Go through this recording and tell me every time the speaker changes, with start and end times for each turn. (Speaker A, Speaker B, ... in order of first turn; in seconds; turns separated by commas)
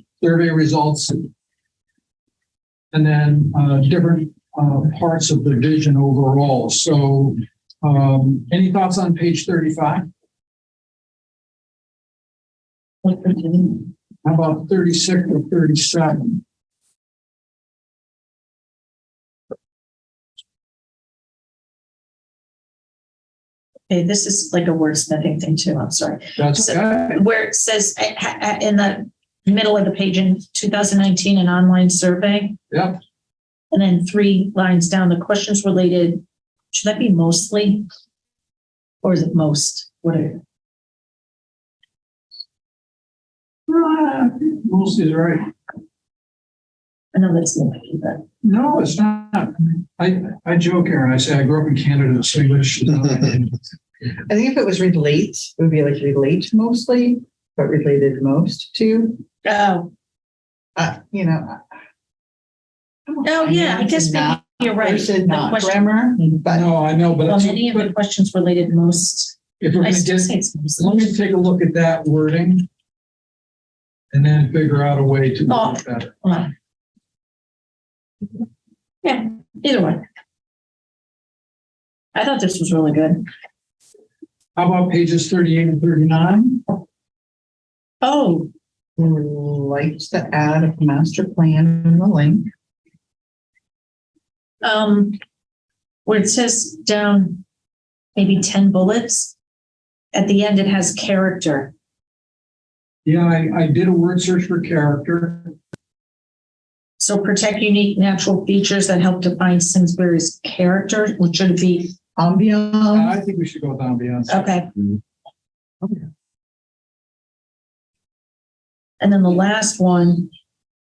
Speaker A: 0.2-1.3, Speaker A: 2.9-10.1, Speaker B: 13.0-13.9, Speaker A: 14.2-16.4, Speaker B: 23.9-32.6, Speaker A: 26.4-27.2, Speaker A: 32.7-33.0, Speaker B: 33.7-37.9, Speaker B: 39.0-40.4, Speaker A: 43.7-45.5, Speaker B: 47.1-48.2, Speaker A: 48.4-53.6, Speaker C: 54.2-59.2, Speaker B: 59.5-59.9, Speaker C: 60.8-61.6, Speaker C: 63.1-66.7, Speaker B: 63.2-65.9, Speaker A: 66.5-67.9, Speaker B: 67.2-71.2, Speaker A: 69.6-72.7, Speaker A: 74.1-76.1, Speaker B: 75.5-76.5, Speaker B: 79.0-80.0, Speaker B: 82.2-83.3, Speaker A: 84.6-86.7, Speaker B: 88.0-88.5, Speaker C: 89.0-92.5, Speaker B: 94.6-95.2, Speaker B: 96.0-97.4, Speaker B: 98.2-99.3, Speaker B: 100.1-101.7, Speaker A: 103.0-105.5, Speaker B: 107.0-111.9, Speaker C: 112.2-113.1, Speaker A: 112.9-114.6, Speaker B: 114.3-114.7, Speaker B: 119.0-120.3